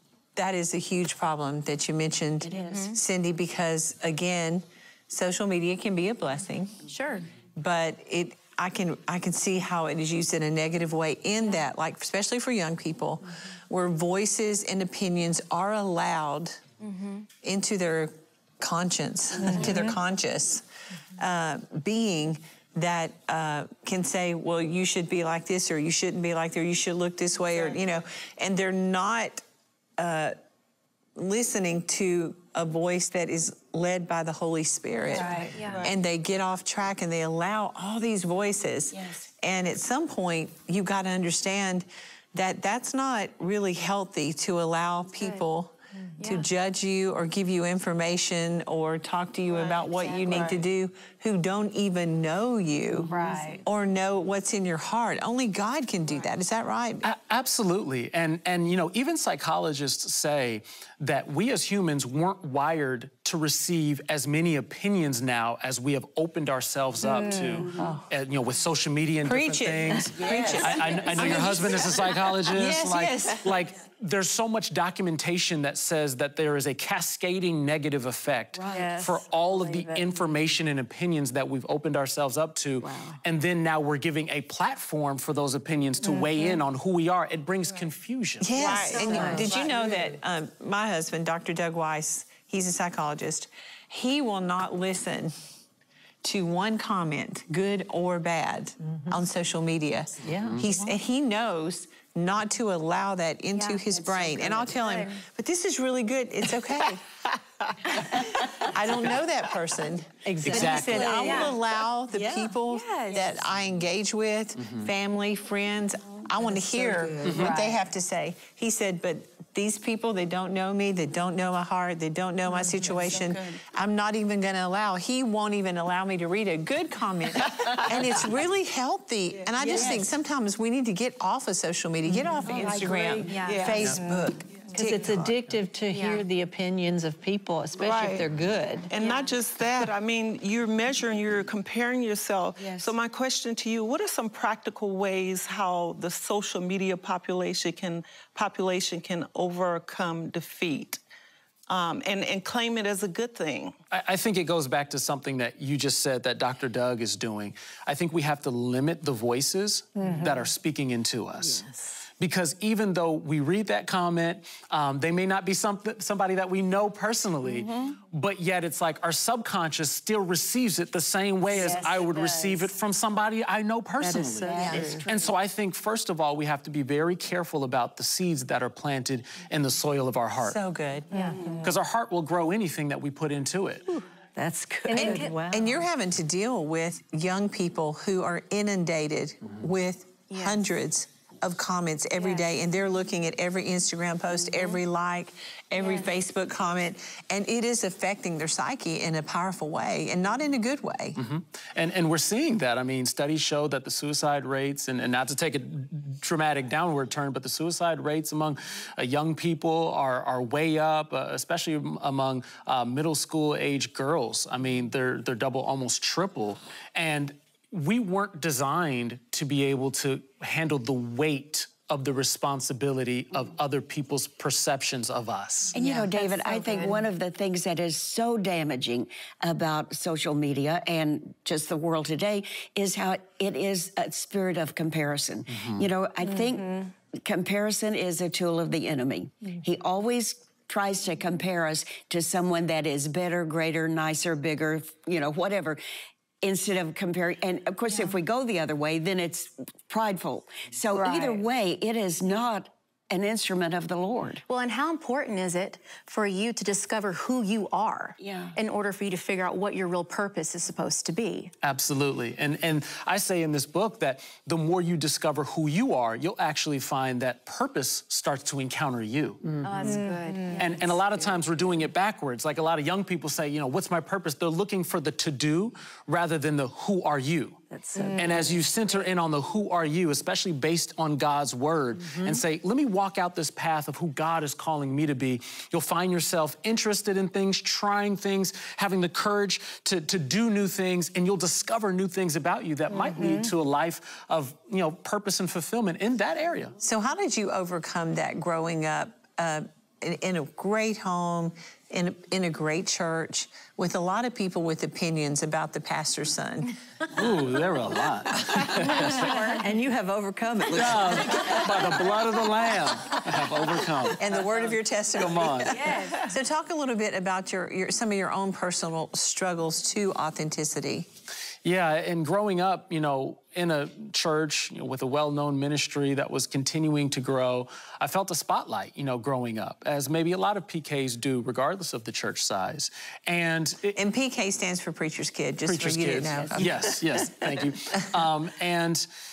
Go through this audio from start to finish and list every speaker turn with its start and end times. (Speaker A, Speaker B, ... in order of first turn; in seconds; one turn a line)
Speaker A: 0.3-6.8
Speaker B: 2.4-3.0
Speaker C: 2.6-3.0
Speaker C: 6.9-7.3
Speaker A: 7.5-16.6
Speaker C: 16.8-17.3
Speaker A: 17.4-20.6
Speaker A: 21.2-29.4
Speaker A: 30.0-30.4
Speaker A: 31.2-57.0
Speaker B: 35.1-35.7
Speaker D: 35.2-35.5
Speaker C: 35.5-35.9
Speaker E: 35.6-35.9
Speaker B: 38.9-39.3
Speaker C: 45.2-45.5
Speaker C: 46.2-46.5
Speaker C: 49.8-50.6
Speaker D: 53.1-53.6
Speaker C: 53.1-53.6
Speaker F: 57.0-88.8
Speaker B: 67.6-67.9
Speaker A: 67.6-68.0
Speaker A: 69.2-72.0
Speaker B: 70.1-71.8
Speaker A: 72.5-73.5
Speaker B: 78.5-79.0
Speaker D: 78.7-80.3
Speaker B: 82.8-83.2
Speaker A: 88.4-95.3
Speaker E: 88.5-90.0
Speaker D: 89.0-89.7
Speaker B: 89.1-89.5
Speaker A: 96.2-107.1
Speaker D: 100.2-100.6
Speaker C: 103.5-103.8
Speaker B: 103.9-104.8
Speaker C: 104.8-105.1
Speaker A: 107.9-135.4
Speaker D: 110.2-111.5
Speaker F: 110.4-111.5
Speaker C: 111.2-111.5
Speaker D: 112.1-112.5
Speaker C: 112.7-113.3
Speaker F: 114.6-114.9
Speaker D: 116.5-117.7
Speaker F: 117.2-117.6
Speaker B: 122.7-123.5
Speaker B: 129.6-130.1
Speaker B: 132.4-133.9
Speaker C: 133.3-133.7
Speaker E: 133.4-133.9
Speaker D: 133.8-138.9
Speaker C: 135.9-136.2
Speaker E: 137.8-138.3
Speaker E: 138.9-151.0
Speaker C: 139.0-139.4
Speaker B: 142.6-143.0
Speaker E: 151.7-153.8
Speaker F: 153.9-161.7
Speaker D: 160.0-160.5
Speaker F: 162.2-180.6
Speaker B: 167.5-167.9
Speaker D: 171.5-172.7
Speaker D: 174.0-175.1
Speaker B: 174.2-175.1
Speaker A: 174.6-175.0
Speaker A: 180.4-181.1
Speaker D: 181.1-181.7
Speaker C: 181.1-181.5
Speaker F: 181.6-183.9
Speaker D: 183.9-185.9
Speaker C: 184.9-185.3
Speaker A: 184.9-201.2
Speaker C: 190.3-190.6
Speaker C: 192.2-192.5
Speaker C: 195.8-196.1
Speaker F: 201.2-225.8
Speaker B: 225.7-245.8
Speaker D: 225.8-227.1
Speaker F: 235.5-235.9
Speaker B: 246.4-254.4
Speaker D: 251.0-251.3
Speaker C: 254.5-261.5
Speaker B: 258.2-258.6
Speaker F: 261.6-270.0
Speaker C: 269.6-270.7
Speaker D: 269.8-270.7
Speaker F: 270.6-296.8
Speaker D: 277.7-278.8
Speaker C: 278.0-278.3
Speaker A: 296.8-306.7
Speaker F: 307.1-309.6
Speaker D: 308.3-312.3
Speaker C: 309.1-309.6
Speaker F: 310.7-316.1
Speaker A: 314.2-321.1
Speaker F: 321.6-334.0
Speaker A: 333.9-336.9
Speaker F: 335.6-339.1
Speaker B: 336.4-336.7